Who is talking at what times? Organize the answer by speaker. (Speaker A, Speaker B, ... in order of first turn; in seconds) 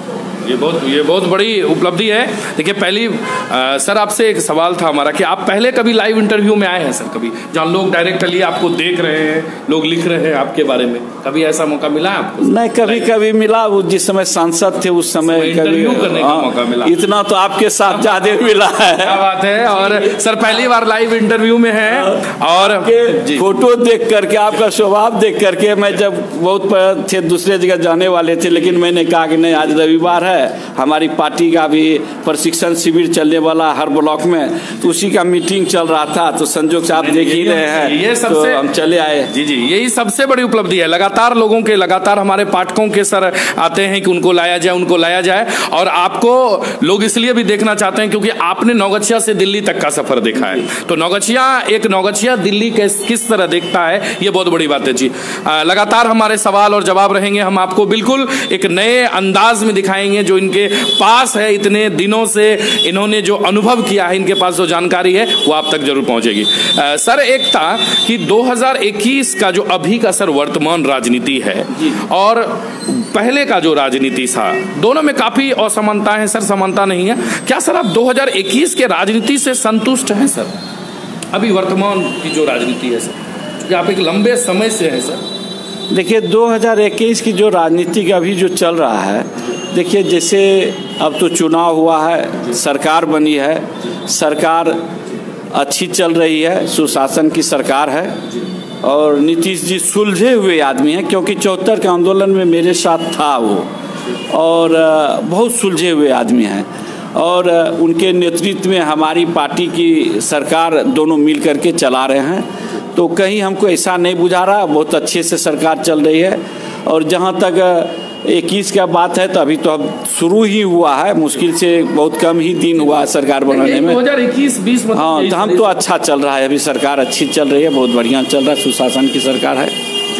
Speaker A: 0.4-13.1, 15.2-17.0, 19.0-23.4, 37.0-38.6, 39.3-80.5, 81.3-85.2, 123.5-125.8
Speaker B: 12.4-19.2, 22.7-39.3, 85.9-94.8, 95.5-98.2, 98.8-103.7, 104.3-124.0, 124.9-129.7